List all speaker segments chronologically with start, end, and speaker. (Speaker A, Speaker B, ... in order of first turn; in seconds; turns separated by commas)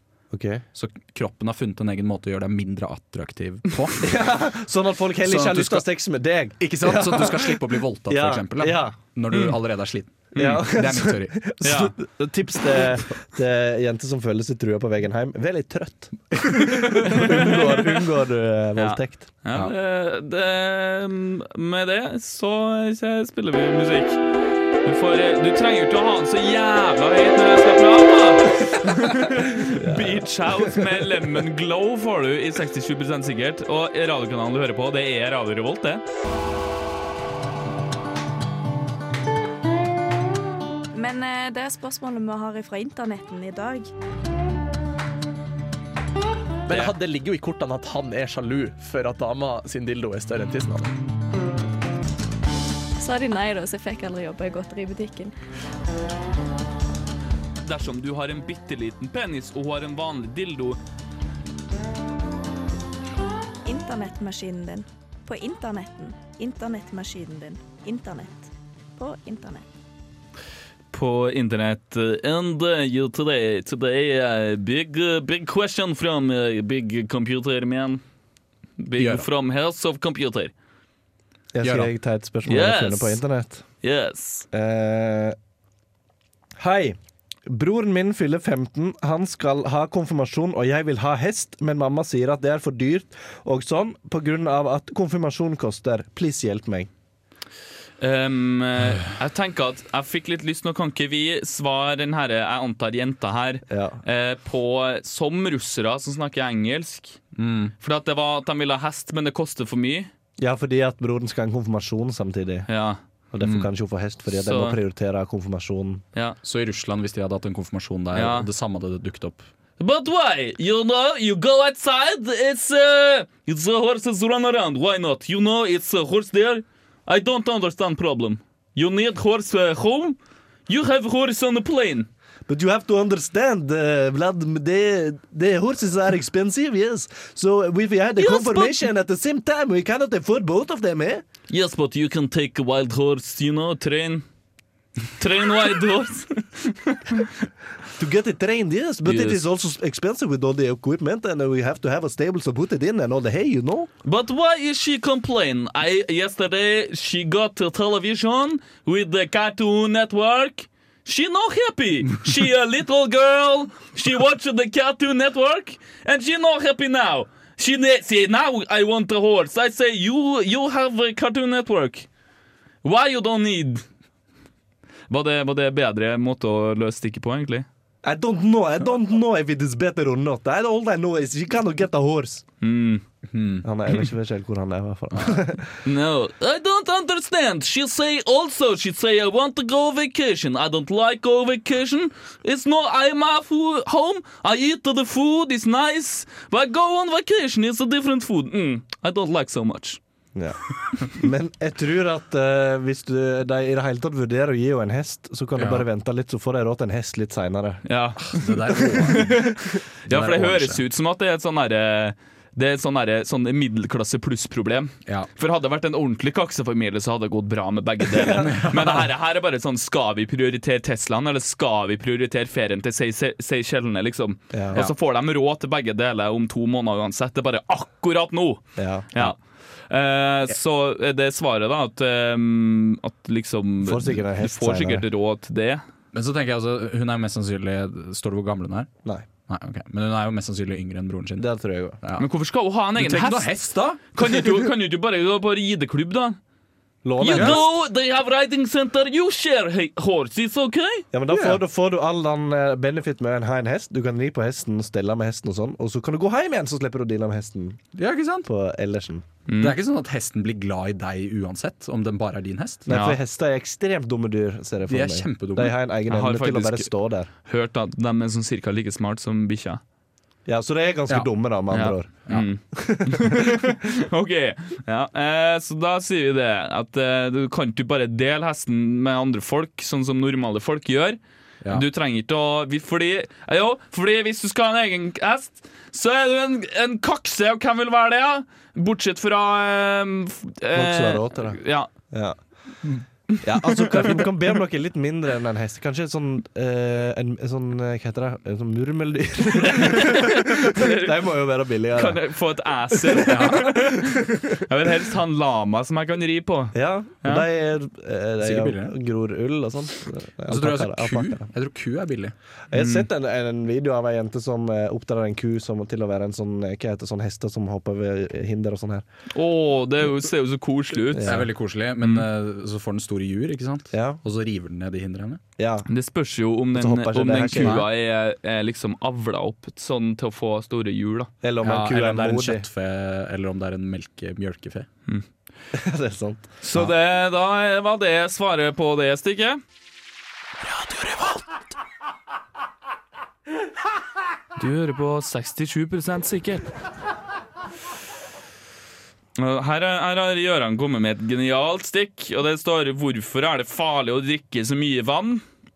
Speaker A: 0.3-0.6, Speaker B: 0.7-4.1, Speaker A: 4.0-9.0, Speaker B: 5.2-5.9, Speaker B: 6.6-11.6, Speaker C: 10.3-10.6, Speaker A: 10.3-19.3, Speaker C: 11.6-11.9, Speaker C: 16.8-17.9, Speaker C: 18.8-24.2, Speaker C: 24.8-36.0, Speaker A: 29.6-31.0, Speaker D: 40.9-43.9, Speaker E: 46.7-50.9, Speaker D: 53.0-55.3, Speaker C: 57.6-60.8, Speaker D: 63.6-69.7, Speaker C: 70.9-78.0, Speaker C: 78.8-80.5, Speaker B: 79.0-79.3, Speaker A: 81.5-83.6, Speaker B: 81.6-81.9, Speaker C: 82.5-83.2, Speaker C: 83.8-84.5, Speaker A: 84.5-85.4, Speaker A: 86.6-96.9, Speaker C: 98.0-107.2, Speaker A: 103.7-104.0, Speaker B: 107.4-107.7, Speaker C: 107.8-110.1, Speaker A: 110.4-112.7, Speaker C: 112.7-113.0, Speaker A: 113.3-116.0, Speaker B: 113.4-113.7, Speaker C: 114.3-114.8, Speaker B: 116.4-119.4, Speaker C: 118.1-118.5, Speaker C: 119.8-130.2, Speaker C: 130.7-132.1, Speaker A: 132.5-141.2, Speaker C: 138.2-138.8, Speaker C: 141.5-144.2, Speaker C: 145.2-147.3, Speaker A: 147.9-153.9, Speaker C: 149.1-149.4, Speaker C: 154.1-172.1, Speaker C: 172.8-173.8, Speaker C: 175.1-177.7, Speaker A: 178.0-182.4, Speaker C: 182.6-183.0, Speaker B: 183.3-183.6, Speaker A: 183.6-185.8, Speaker C: 185.8-200.0, Speaker A: 200.3-207.8, Speaker B: 205.6-205.8, Speaker C: 207.8-229.4, Speaker B: 208.3-209.5, Speaker B: 210.1-210.8, Speaker A: 218.2-218.7, Speaker B: 218.4-219.0, Speaker A: 224.5-224.8, Speaker A: 228.8-229.1, Speaker C: 229.9-235.8, Speaker A: 233.8-235.1, Speaker B: 236.1-238.9, Speaker B: 239.5-241.5, Speaker A: 241.4-242.0, Speaker B: 242.0-242.3, Speaker C: 242.2-243.5, Speaker B: 242.9-244.7, Speaker C: 244.1-246.4, Speaker A: 247.0-247.6, Speaker C: 247.2-251.1, Speaker B: 247.3-247.6, Speaker A: 251.1-257.8, Speaker B: 251.3-251.6, Speaker B: 257.9-258.5, Speaker A: 258.4-259.2, Speaker C: 259.5-259.8, Speaker B: 259.6-262.9, Speaker A: 262.9-267.3, Speaker C: 262.9-263.2, Speaker B: 264.9-265.7, Speaker C: 266.1-266.9, Speaker C: 267.4-269.8, Speaker A: 270.4-273.7, Speaker C: 271.7-291.9, Speaker A: 290.7-292.4, Speaker A: 293.4-302.2, Speaker C: 293.6-294.2, Speaker C: 299.6-301.1, Speaker C: 301.9-307.5, Speaker A: 302.9-304.6, Speaker B: 303.2-303.8, Speaker A: 306.7-311.5, Speaker B: 308.4-308.9, Speaker B: 310.5-312.4, Speaker A: 312.7-319.1, Speaker C: 312.7-313.1, Speaker C: 319.3-321.4, Speaker A: 321.1-321.5, Speaker B: 321.2-325.4, Speaker A: 323.9-324.2, Speaker A: 325.6-325.9, Speaker C: 325.9-331.3, Speaker A: 326.7-327.8, Speaker B: 327.6-327.9, Speaker A: 331.4-332.6, Speaker B: 331.6-334.9, Speaker A: 335.7-336.8, Speaker C: 336.6-339.6, Speaker C: 344.6-346.7, Speaker C: 349.4-355.4